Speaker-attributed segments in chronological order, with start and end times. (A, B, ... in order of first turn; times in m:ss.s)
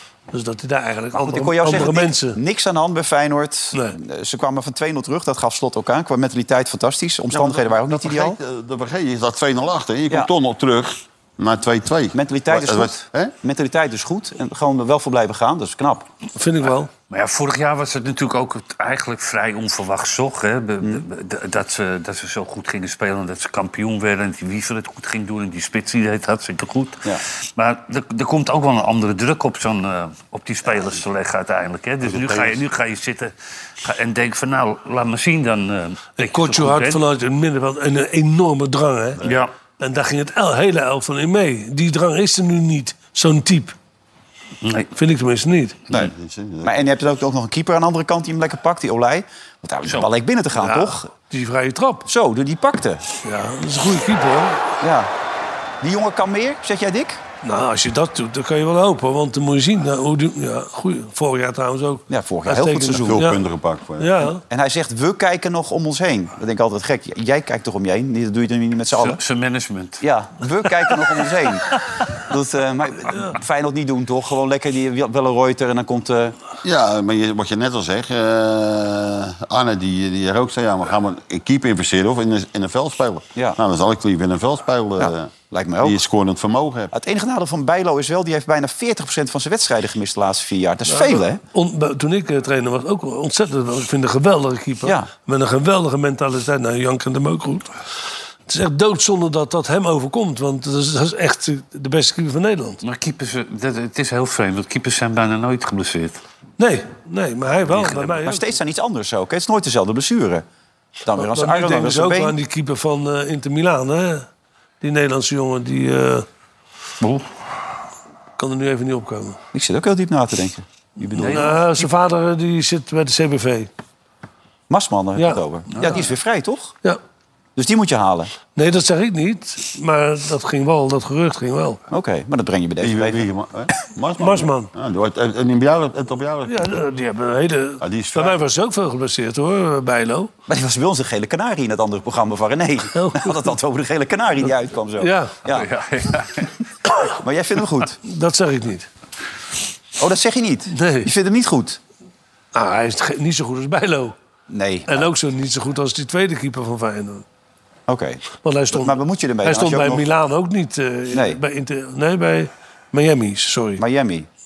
0:00.3-0:02.4 A
0:01.2-0:08.4 B
0:07.3-0:13.3 C
0:12.1-0:16.1 B
0:16.4-0:16.9 A
0:17.1-0:37.0 D
0:32.0-0:32.6 C
0:36.2-0:39.3 A
0:39.2-0:39.5 D
0:39.8-0:43.8 A
0:44.6-0:44.9 D
0:45.0-0:45.8 A
0:45.9-0:46.7 C
0:46.6-0:51.1 B
0:50.6-0:52.1 A
0:52.1-0:53.0 B
0:53.2-0:54.7 A
0:54.8-0:55.1 B
0:55.8-0:57.2 B
0:57.4-1:03.4 A
1:02.1-1:03.3 B
1:03.1-1:04.2 C
1:04.0-1:04.4 A
1:04.5-1:09.2 B
1:09.0-1:10.0 D
1:10.0-1:16.4 B
1:16.6-1:26.9 C
1:25.0-1:26.0 B
1:26.9-1:31.4 B
1:30.9-1:37.8 A
1:38.5-1:42.8 A
1:42.8-1:46.2 D
1:46.6-1:48.5 A
1:48.1-1:50.4 B
1:51.1-1:52.4 B
1:51.2-1:54.3 A
1:54.8-1:56.3 A
1:58.4-1:59.4 A
1:59.5-2:01.5 B
2:01.2-2:01.8 D
2:01.2-2:03.7 A
2:04.7-2:06.8 B
2:07.6-2:08.3 B
2:08.6-2:11.8 A
2:11.9-2:13.2 B
2:12.8-2:16.7 C
2:14.2-2:14.7 A
2:16.5-2:20.3 A
2:17.8-2:18.4 C
2:20.5-2:25.7 B
2:22.9-2:23.4 A
2:25.0-2:25.3 A
2:25.5-2:26.5 D
2:27.0-2:28.0 B
2:28.0-2:28.9 A
2:30.0-2:31.8 B
2:30.7-2:31.1 A
2:32.5-2:34.2 A
2:34.5-2:35.1 B
2:34.9-2:37.2 A
2:37.9-2:38.2 B
2:38.4-2:43.8 A
2:38.7-2:40.0 B
2:41.1-2:41.4 B
2:43.8-2:44.3 B